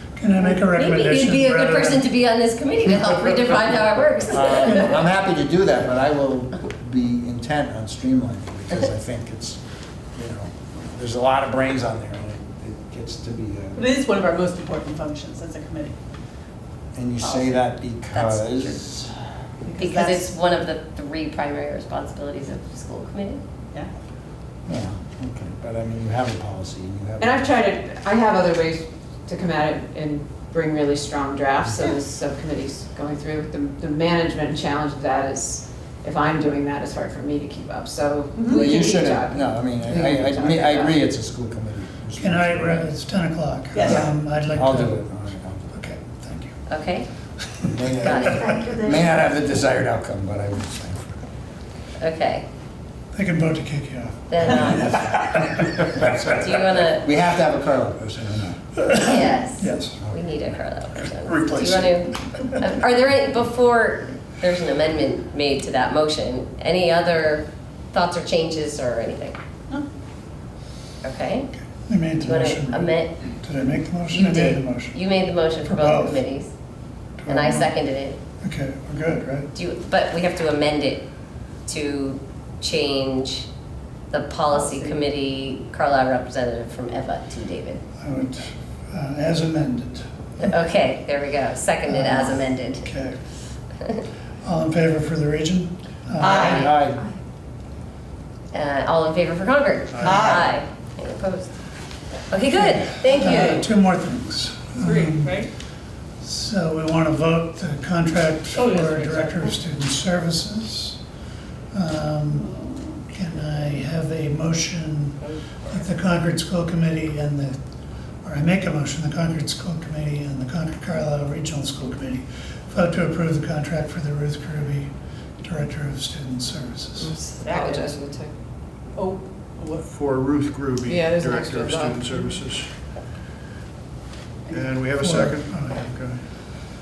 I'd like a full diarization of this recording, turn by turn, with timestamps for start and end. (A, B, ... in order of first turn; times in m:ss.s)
0:00.2-0:02.0 A
0:00.4-0:05.0 B
0:04.3-0:09.6 C
0:10.1-0:13.9 C
0:13.7-0:15.9 D
0:16.9-0:19.1 C
0:18.3-0:18.6 D
0:19.6-0:20.3 D
0:19.7-0:23.4 B
0:24.7-0:27.4 C
0:27.2-0:41.0 E
0:38.4-0:42.9 C
0:42.2-0:45.2 A
0:43.7-0:44.1 D
0:43.8-0:45.6 C
0:45.7-0:46.6 A
0:46.7-0:47.1 B
0:47.4-0:48.2 A
0:47.7-0:51.2 C
0:48.0-0:48.9 B
0:48.2-0:49.0 D
0:52.0-0:52.4 B
0:53.1-0:55.8 A
0:54.3-0:55.1 B
0:55.8-0:58.6 C
0:56.1-0:57.1 B
0:58.8-1:00.0 A
0:59.0-1:09.4 B
1:01.3-1:02.5 A
1:11.0-1:11.5 B
1:11.8-1:15.0 A
1:12.2-1:13.2 B
1:14.1-1:16.5 B
1:15.6-1:16.2 A
1:17.2-1:17.7 A
1:17.2-1:18.2 B
1:18.4-1:19.5 A
1:19.5-1:21.0 B
1:21.7-1:23.5 B
1:24.1-1:27.8 B
1:28.0-1:30.4 A
1:30.4-1:32.8 B
1:31.8-1:33.2 A
1:34.4-1:36.7 A
1:36.2-1:37.1 D
1:36.3-1:37.0 C
1:38.5-1:41.6 B
1:40.0-1:40.3 F
1:40.0-1:40.5 D
1:42.3-1:43.6 B
1:42.6-1:45.5 A
1:43.2-1:43.7 D
1:44.8-1:45.5 D
1:46.2-1:51.0 A
1:48.5-1:49.6 D
1:51.7-1:57.6 A
1:52.5-1:52.9 D
1:55.3-1:55.8 D
1:58.2-2:04.9 A
2:05.4-2:07.2 A
2:07.0-2:08.3 E
2:07.3-2:07.9 D
2:09.0-2:09.8 D
2:09.9-2:12.7 F
2:10.9-2:12.3 E
2:14.5-2:16.1 F
2:15.0-2:16.2 A